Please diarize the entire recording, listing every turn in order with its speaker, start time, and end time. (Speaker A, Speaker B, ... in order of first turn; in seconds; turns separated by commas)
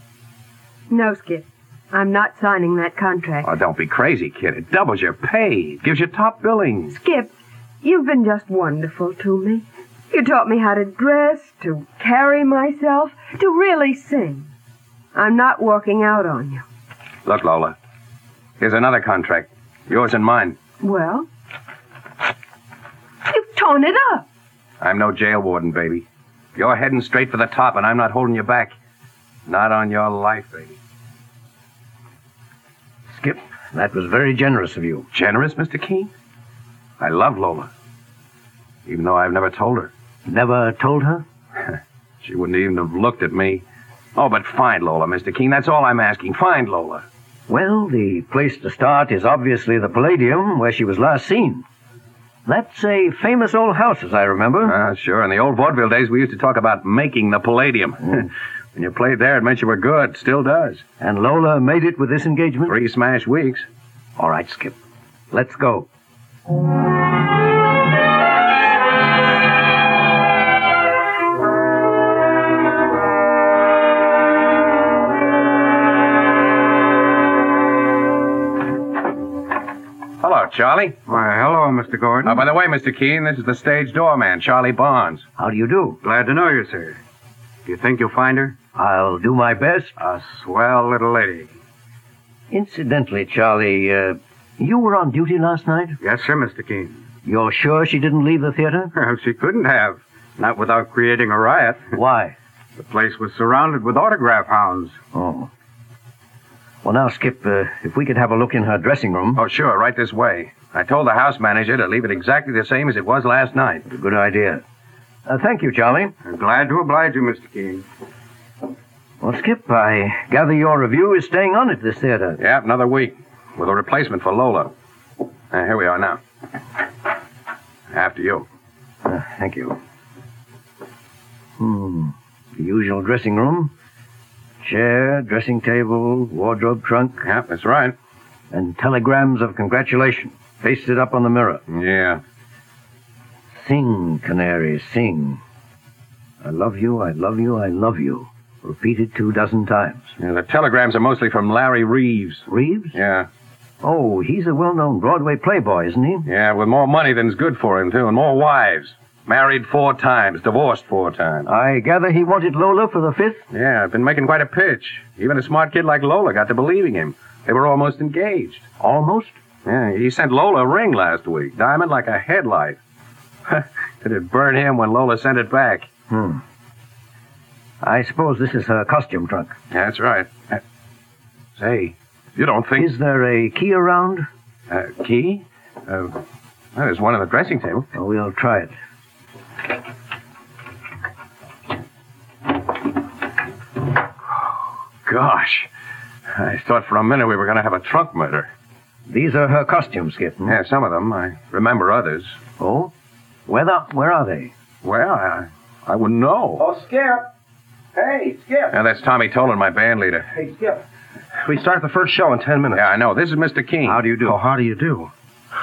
Speaker A: 0.9-3.5, Speaker B: 3.4-7.0, Speaker A: 6.9-14.5, Speaker A: 15.2-16.6, Speaker B: 17.3-17.8, Speaker B: 18.6-20.6, Speaker A: 20.8-21.3, Speaker A: 23.3-24.2, Speaker B: 24.8-26.1, Speaker B: 26.6-28.8, Speaker B: 29.5-30.8, Speaker C: 33.1-35.1, Speaker B: 35.1-36.1, Speaker B: 37.0-37.7, Speaker B: 38.9-39.9, Speaker C: 40.3-41.2, Speaker B: 42.2-43.6, Speaker B: 44.2-47.0, Speaker C: 47.5-51.6, Speaker C: 52.5-54.8, Speaker B: 54.6-60.8, Speaker C: 61.0-62.8, Speaker B: 62.7-63.7, Speaker C: 64.2-64.8, Speaker C: 65.3-65.9, Speaker B: 80.2-81.0, Speaker D: 81.1-82.4, Speaker B: 82.2-85.2, Speaker C: 85.4-86.0, Speaker D: 86.0-87.0, Speaker D: 87.7-88.6, Speaker C: 88.8-89.9, Speaker D: 90.0-91.5, Speaker C: 92.5-96.0, Speaker D: 96.0-97.0, Speaker C: 97.2-98.9, Speaker D: 98.9-101.9, Speaker C: 101.9-102.3, Speaker D: 102.8-105.0, Speaker C: 105.1-105.5, Speaker C: 106.8-109.4, Speaker B: 109.4-113.8, Speaker C: 113.9-114.6, Speaker C: 115.3-116.1, Speaker D: 116.2-117.9, Speaker C: 119.2-122.4, Speaker B: 122.4-124.7, Speaker B: 125.5-126.2, Speaker B: 127.9-128.5, Speaker C: 129.1-129.8, Speaker C: 131.6-133.7, Speaker C: 134.6-137.2, Speaker B: 137.2-137.9, Speaker C: 138.5-141.6, Speaker B: 141.7-142.2, Speaker C: 143.5-145.4, Speaker C: 146.4-150.1, Speaker B: 150.2-153.3, Speaker C: 152.5-153.0, Speaker C: 153.8-156.3, Speaker B: 156.2-161.5, Speaker C: 161.5-163.4, Speaker B: 163.5-168.7, Speaker C: 168.8-169.4, Speaker B: 169.7-172.8, Speaker B: 173.5-175.9, Speaker C: 176.1-176.4, Speaker C: 177.8-179.6, Speaker B: 179.7-180.6, Speaker B: 181.6-182.9, Speaker C: 182.8-184.3, Speaker B: 184.7-186.2, Speaker B: 186.8-187.9, Speaker C: 187.9-188.7, Speaker B: 195.1-195.7, Speaker B: 196.3-198.5, Speaker C: 199.1-200.6, Speaker B: 200.5-202.4, Speaker C: 202.6-202.9, Speaker C: 203.5-204.5, Speaker B: 204.8-206.6, Speaker E: 206.6-207.3, Speaker E: 208.0-208.7, Speaker B: 208.7-210.3, Speaker E: 210.3-210.8, Speaker E: 211.4-212.8, Speaker B: 212.7-214.1, Speaker C: 213.8-214.4, Speaker E: 214.2-215.1